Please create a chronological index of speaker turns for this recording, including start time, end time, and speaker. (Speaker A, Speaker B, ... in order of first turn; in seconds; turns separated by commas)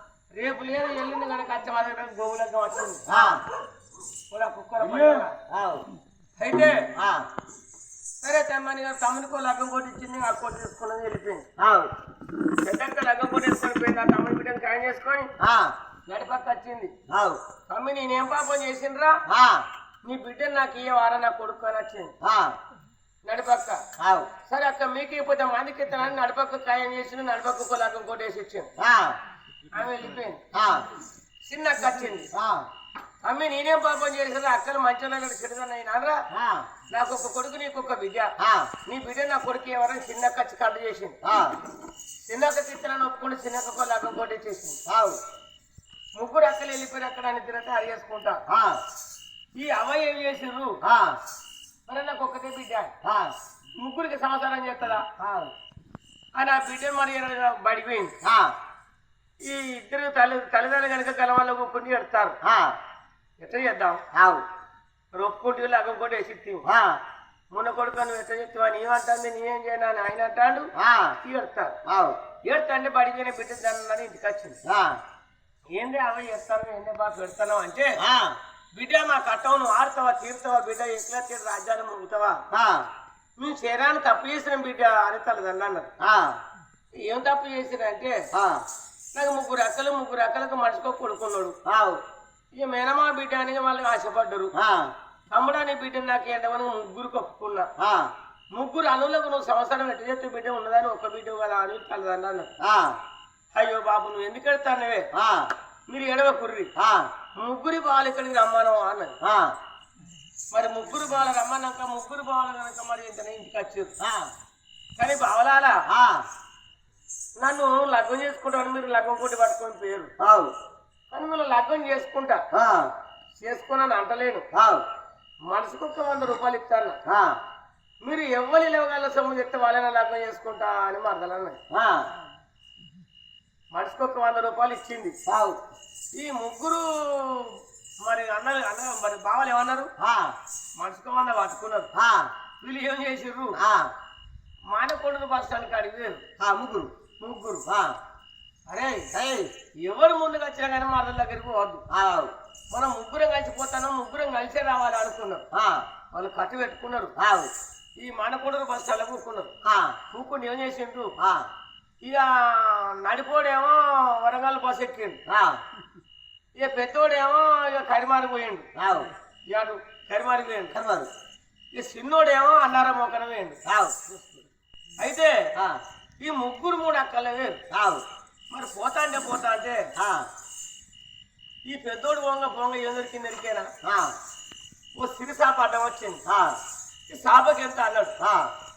Speaker A: 0.3-3.2, Speaker B: 3.1-3.4, Speaker A: 4.3-5.4, Speaker B: 4.8-5.8, Speaker A: 6.4-6.9, Speaker B: 6.9-7.3, Speaker A: 8.2-11.5, Speaker B: 11.6-11.9, Speaker A: 12.6-15.3, Speaker B: 15.4-15.8, Speaker A: 16.1-16.9, Speaker B: 17.1-17.4, Speaker A: 17.7-19.2, Speaker B: 19.3-19.7, Speaker A: 20.0-22.1, Speaker B: 22.2-22.6, Speaker A: 23.2-23.8, Speaker B: 24.0-24.3, Speaker A: 24.4-28.7, Speaker B: 28.8-29.2, Speaker A: 29.7-30.4, Speaker B: 30.5-30.9, Speaker A: 31.4-32.3, Speaker B: 32.3-32.7, Speaker A: 33.2-36.2, Speaker B: 36.3-36.7, Speaker A: 36.9-38.3, Speaker B: 38.4-38.7, Speaker A: 38.8-41.2, Speaker B: 41.2-41.6, Speaker A: 42.3-44.8, Speaker B: 44.9-45.2, Speaker A: 46.1-48.4, Speaker B: 48.5-48.8, Speaker A: 49.5-50.8, Speaker B: 50.8-51.2, Speaker A: 51.9-52.9, Speaker B: 53.0-53.3, Speaker A: 53.8-55.1, Speaker B: 55.1-55.5, Speaker A: 56.4-58.1, Speaker B: 58.2-58.5, Speaker A: 59.4-62.4, Speaker B: 62.4-62.8, Speaker A: 63.4-64.0, Speaker B: 64.1-64.4, Speaker A: 65.1-66.7, Speaker B: 66.7-67.0, Speaker A: 67.5-71.8, Speaker B: 70.8-71.2, Speaker B: 71.9-72.2, Speaker A: 72.4-74.6, Speaker B: 74.7-75.0, Speaker A: 75.8-78.0, Speaker B: 78.0-78.4, Speaker A: 78.7-82.4, Speaker B: 82.5-82.9, Speaker A: 83.4-85.9, Speaker B: 86.0-86.4, Speaker A: 87.0-88.2, Speaker B: 88.3-88.7, Speaker A: 89.1-91.6, Speaker B: 91.7-92.0, Speaker A: 92.5-94.5, Speaker B: 94.5-94.9, Speaker A: 95.3-97.7, Speaker B: 97.8-98.1, Speaker A: 98.5-102.5, Speaker B: 102.6-103.0, Speaker A: 103.5-105.1, Speaker B: 105.1-105.5, Speaker A: 105.9-106.7, Speaker B: 106.8-107.1, Speaker A: 107.4-109.2, Speaker B: 109.2-109.6, Speaker A: 110.5-113.9, Speaker B: 114.0-114.3, Speaker A: 115.0-115.8, Speaker B: 115.9-116.3, Speaker A: 117.4-120.1, Speaker B: 120.2-120.5, Speaker A: 121.1-122.5, Speaker B: 122.5-122.9, Speaker A: 123.4-124.5, Speaker B: 124.5-124.8, Speaker A: 125.4-127.0, Speaker B: 127.1-127.4, Speaker A: 128.0-131.6, Speaker B: 131.7-132.1, Speaker A: 133.7-135.2, Speaker B: 135.3-135.6, Speaker A: 136.1-139.9, Speaker B: 140.0-140.4, Speaker A: 140.8-141.9, Speaker B: 141.9-142.3, Speaker A: 142.6-143.6, Speaker B: 143.6-143.9, Speaker A: 144.7-146.2, Speaker B: 146.4-146.9, Speaker A: 147.2-147.7, Speaker B: 147.7-148.0, Speaker A: 148.7-149.1, Speaker B: 149.1-149.5, Speaker A: 149.8-151.8, Speaker B: 151.9-152.3, Speaker A: 152.7-155.4, Speaker B: 155.5-155.9, Speaker A: 156.1-157.1, Speaker B: 157.2-157.5, Speaker A: 158.0-159.5, Speaker B: 159.6-160.0, Speaker A: 160.1-161.1, Speaker B: 161.2-161.5, Speaker A: 162.0-165.2, Speaker B: 165.3-165.6, Speaker A: 166.6-168.7, Speaker B: 168.8-169.1, Speaker A: 169.5-170.8, Speaker B: 170.7-171.1, Speaker A: 171.8-173.6, Speaker B: 173.7-174.1, Speaker A: 175.0-175.5, Speaker B: 175.6-175.8, Speaker A: 176.2-177.6, Speaker B: 177.7-178.1, Speaker A: 178.5-179.9, Speaker B: 180.0-180.3, Speaker A: 181.7-183.7, Speaker B: 183.8-184.2, Speaker A: 184.9-186.2, Speaker B: 186.3-186.6, Speaker A: 187.1-188.2, Speaker B: 188.2-188.5